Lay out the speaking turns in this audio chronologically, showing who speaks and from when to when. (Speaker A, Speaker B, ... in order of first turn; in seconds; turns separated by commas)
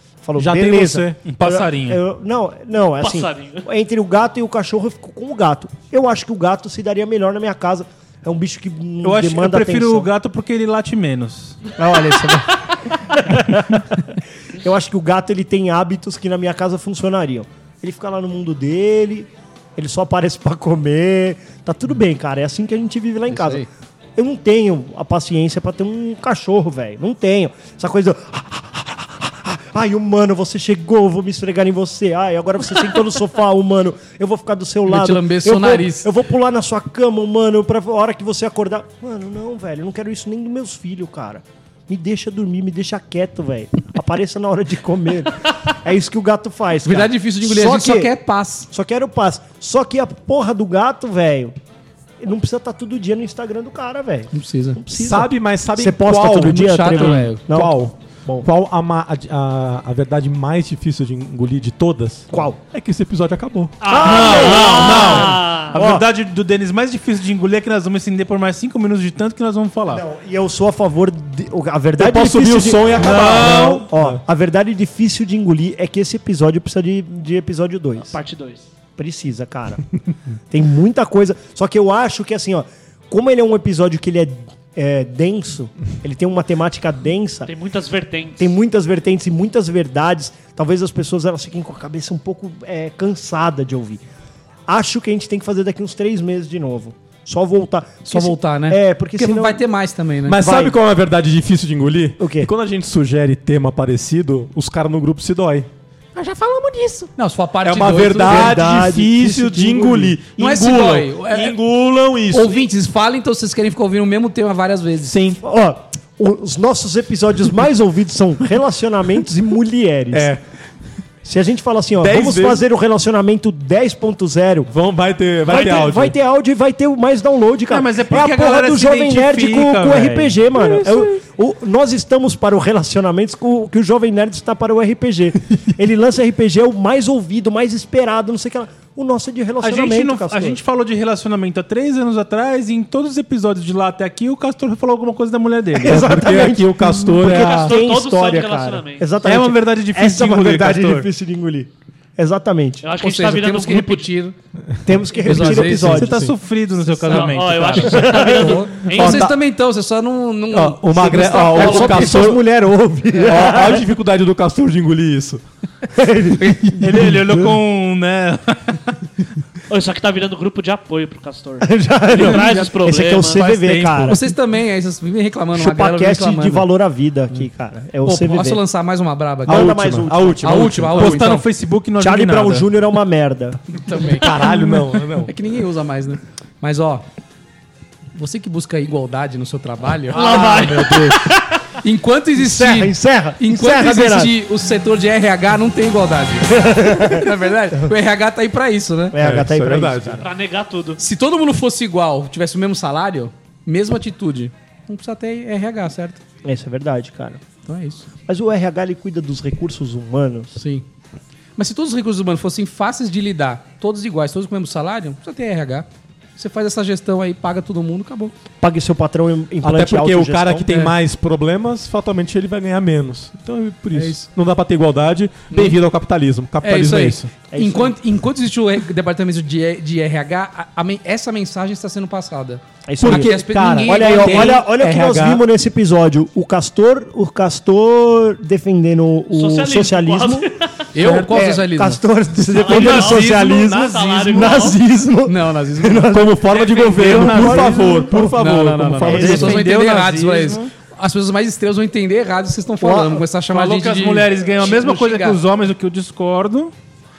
Speaker A: 0.2-10.1, Speaker B: 0.3-1.2, Speaker C: 1.2-2.0, Speaker D: 3.0-3.6, Speaker C: 9.0-11.6, Speaker A: 11.8-48.1, Speaker E: 23.3-23.7, Speaker E: 34.9-36.1, Speaker E: 46.8-48.7, Speaker A: 48.7-51.5, Speaker A: 52.2-58.5, Speaker E: 54.3-54.8, Speaker B: 54.9-65.4, Speaker E: 56.3-57.4, Speaker D: 63.8-65.8, Speaker A: 63.9-66.0, Speaker C: 63.9-70.0, Speaker A: 69.9-78.2, Speaker B: 72.0-74.2, Speaker C: 73.0-73.9, Speaker D: 78.0-78.7, Speaker A: 79.0-79.8, Speaker A: 80.5-87.5, Speaker D: 87.5-88.5, Speaker A: 88.4-94.0, Speaker A: 94.7-99.6, Speaker E: 98.1-100.4, Speaker B: 100.3-107.1, Speaker A: 100.3-100.7, Speaker A: 102.2-102.5, Speaker E: 107.2-108.6, Speaker B: 107.6-112.6, Speaker A: 108.2-110.6, Speaker E: 110.4-111.5, Speaker E: 112.3-115.1, Speaker B: 115.0-115.4, Speaker A: 115.4-120.3, Speaker B: 120.1-120.4, Speaker A: 121.2-124.7, Speaker B: 122.0-122.6, Speaker B: 124.7-126.2, Speaker A: 125.5-140.6, Speaker C: 127.7-131.1, Speaker C: 139.6-146.1, Speaker A: 145.8-152.8, Speaker B: 145.8-147.8, Speaker D: 147.2-149.1, Speaker C: 149.2-151.1, Speaker D: 152.8-154.1, Speaker E: 153.0-154.3, Speaker A: 154.8-156.2, Speaker E: 155.1-156.1, Speaker B: 155.2-156.3, Speaker C: 155.3-158.2, Speaker D: 157.1-159.3, Speaker E: 157.1-162.3, Speaker A: 157.8-158.7, Speaker B: 158.9-159.3, Speaker B: 160.5-162.4, Speaker A: 161.0-163.8, Speaker E: 163.1-163.7, Speaker B: 163.2-165.4, Speaker A: 165.9-166.7, Speaker B: 166.4-167.3, Speaker C: 166.6-168.9, Speaker D: 169.7-173.5, Speaker A: 171.6-174.2, Speaker C: 172.1-172.7, Speaker C: 173.3-174.2, Speaker E: 174.1-176.7, Speaker A: 175.5-178.6, Speaker E: 178.0-179.8, Speaker A: 179.4-180.4, Speaker B: 179.5-181.3, Speaker E: 180.4-181.4, Speaker C: 180.9-182.7, Speaker A: 182.0-183.6, Speaker E: 183.7-187.0, Speaker B: 184.1-185.3, Speaker E: 188.1-190.7, Speaker B: 190.1-191.2, Speaker D: 190.1-191.1, Speaker A: 190.2-191.1, Speaker E: 191.8-199.2, Speaker A: 192.3-194.3, Speaker A: 196.5-197.9, Speaker A: 199.1-200.3, Speaker B: 199.2-200.3, Speaker D: 200.2-201.0, Speaker E: 201.0-206.2, Speaker A: 206.4-207.4, Speaker E: 207.7-208.1, Speaker A: 208.2-210.5, Speaker E: 210.5-210.8, Speaker E: 211.6-218.3, Speaker A: 218.6-220.7, Speaker B: 219.6-227.3, Speaker E: 223.9-224.2, Speaker E: 225.5-225.8, Speaker E: 226.6-234.6, Speaker A: 227.5-227.9, Speaker A: 232.8-240.5, Speaker B: 233.0-235.4, Speaker D: 239.3-240.9, Speaker E: 240.9-242.0, Speaker A: 241.0-248.2, Speaker D: 242.5-244.8, Speaker C: 242.6-244.5, Speaker B: 242.6-243.2, Speaker E: 245.2-246.2, Speaker B: 246.1-249.6, Speaker C: 246.8-250.7, Speaker E: 248.4-255.4, Speaker A: 249.1-249.6, Speaker A: 252.8-253.2, Speaker C: 253.5-256.7